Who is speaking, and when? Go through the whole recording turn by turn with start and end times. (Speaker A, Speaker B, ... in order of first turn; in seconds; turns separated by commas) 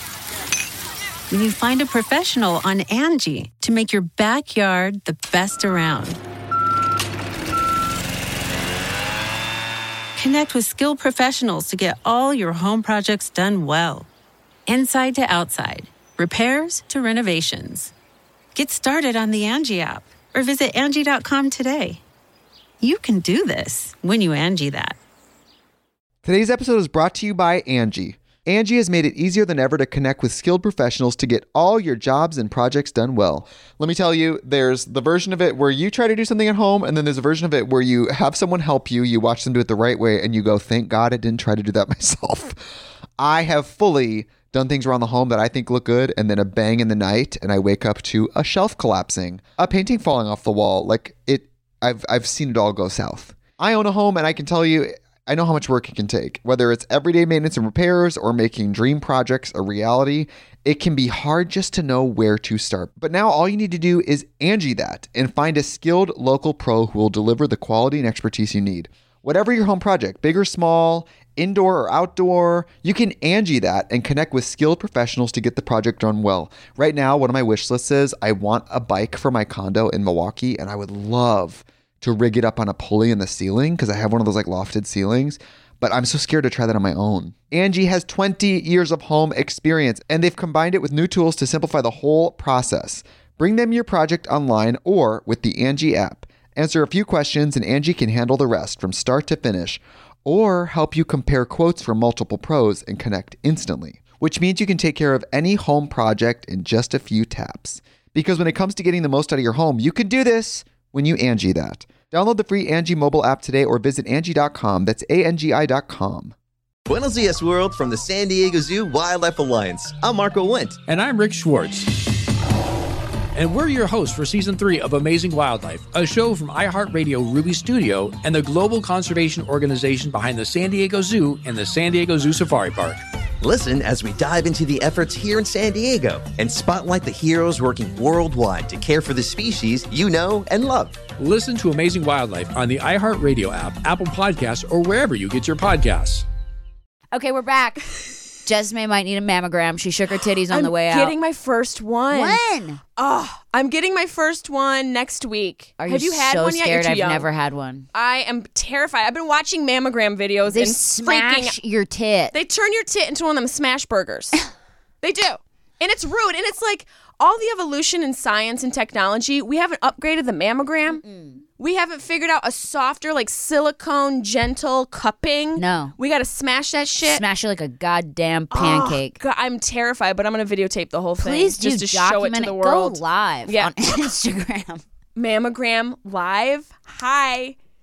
Speaker A: 1.3-6.2, Speaker A: 10.2-14.1, Speaker A: 14.7-17.9, Speaker A: 18.5-22.0, Speaker A: 22.8-25.0, Speaker B: 26.2-42.6, Speaker B: 43.2-116.3, Speaker C: 116.9-120.8, Speaker D: 120.9-122.0, Speaker D: 123.3-133.0, Speaker C: 133.4-141.0, Speaker D: 141.2-146.2, Speaker E: 147.1-147.8, Speaker E: 148.4-151.1, Speaker F: 150.5-152.4, Speaker E: 152.1-152.8, Speaker F: 153.0-157.3, Speaker E: 155.8-157.9, Speaker F: 157.9-161.6, Speaker E: 160.5-162.4, Speaker F: 162.3-164.4, Speaker F: 165.0-171.0, Speaker E: 170.9-171.4, Speaker F: 171.6-177.2, Speaker E: 175.6-175.9, Speaker E: 177.0-179.2, Speaker F: 178.5-184.1, Speaker E: 181.2-184.8, Speaker F: 185.2-187.6